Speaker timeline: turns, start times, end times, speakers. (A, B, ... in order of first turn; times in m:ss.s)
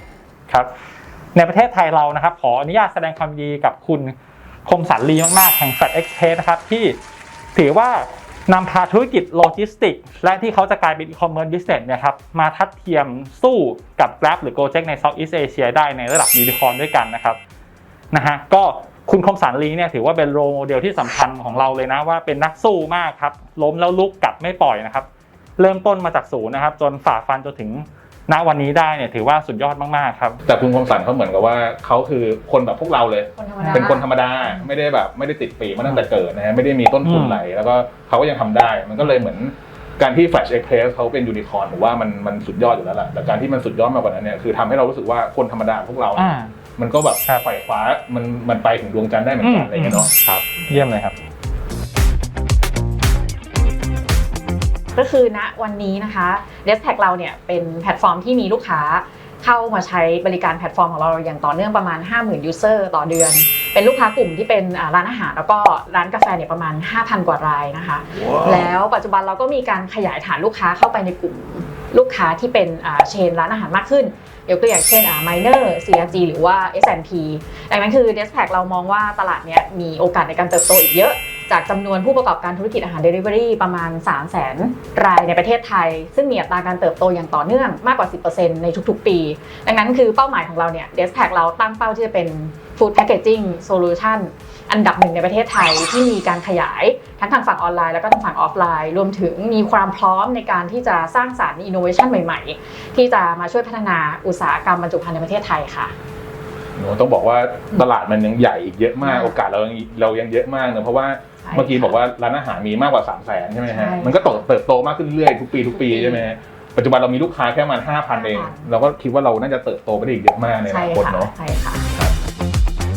0:01.3-0:07.0 A
0:07.5-0:17.4 A
0:18.1-0:30.4 A
0:30.4-0:50.7 B
0:33.4-0:34.0 C
0:37.0-0:37.4 A
0:46.2-0:46.5 A
0:49.4-0:50.1 A
0:50.7-0:51.2 A
0:55.0-1:45.9 C
1:46.8-2:01.3 B
1:49.0-1:49.3 C
1:51.4-1:52.0 C
1:53.7-1:54.4 C
1:55.7-1:56.2 C
1:58.1-1:58.6 C
2:00.7-2:01.8 C